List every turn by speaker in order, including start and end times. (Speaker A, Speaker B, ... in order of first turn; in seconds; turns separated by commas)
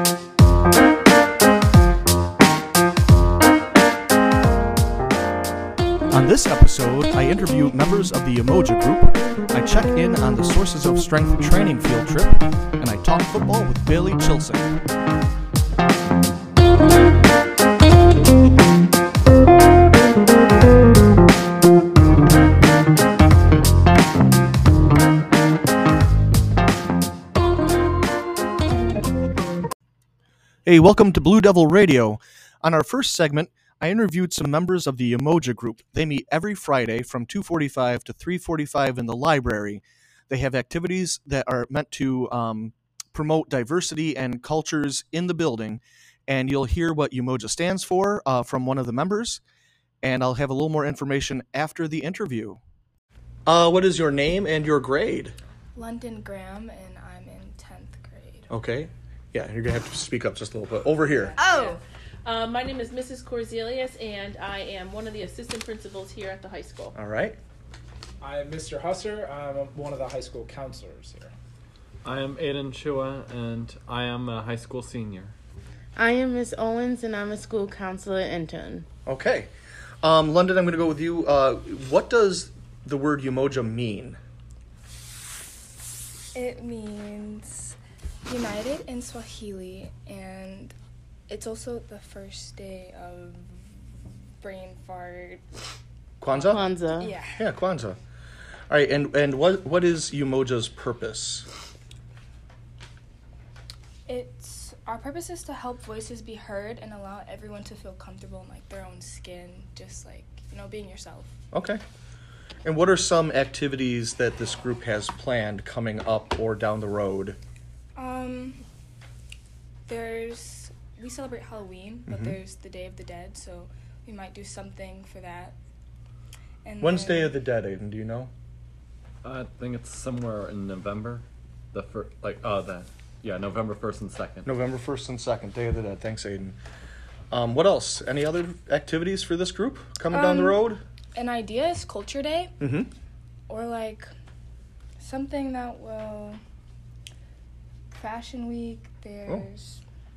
Speaker A: 6.1-14.8, Speaker A: 30.6-49.4, Speaker A: 50.0-52.6, Speaker A: 53.5-55.4, Speaker B: 55.8-58.5, Speaker A: 58.5-61.3, Speaker B: 61.1-61.8, Speaker C: 62.2-66.9, Speaker A: 66.9-67.4, Speaker D: 68.2-71.3, Speaker E: 72.0-75.3, Speaker F: 76.0-78.8, Speaker A: 79.0-79.5, Speaker A: 80.0-84.2, Speaker B: 86.3-90.8, Speaker B: 91.3-93.7, Speaker B: 94.4-95.4, Speaker A: 96.2-96.6, Speaker B: 96.3-97.4, Speaker F: 96.4-97.1, Speaker A: 97.3-98.0, Speaker A: 98.7-101.5, Speaker B: 104.1-111.3, Speaker A: 111.5-111.8, Speaker A: 112.6-117.4, Speaker B: 118.0-118.6, Speaker B: 119.8-125.5, Speaker A: 122.1-122.4, Speaker B: 126.6-127.4, Speaker A: 126.8-128.3, Speaker E: 129.2-134.5, Speaker A: 134.4-136.6, Speaker A: 137.3-140.8, Speaker B: 140.1-142.5, Speaker A: 142.6-142.9, Speaker B: 143.5-144.1, Speaker B: 145.0-146.4, Speaker B: 147.9-149.8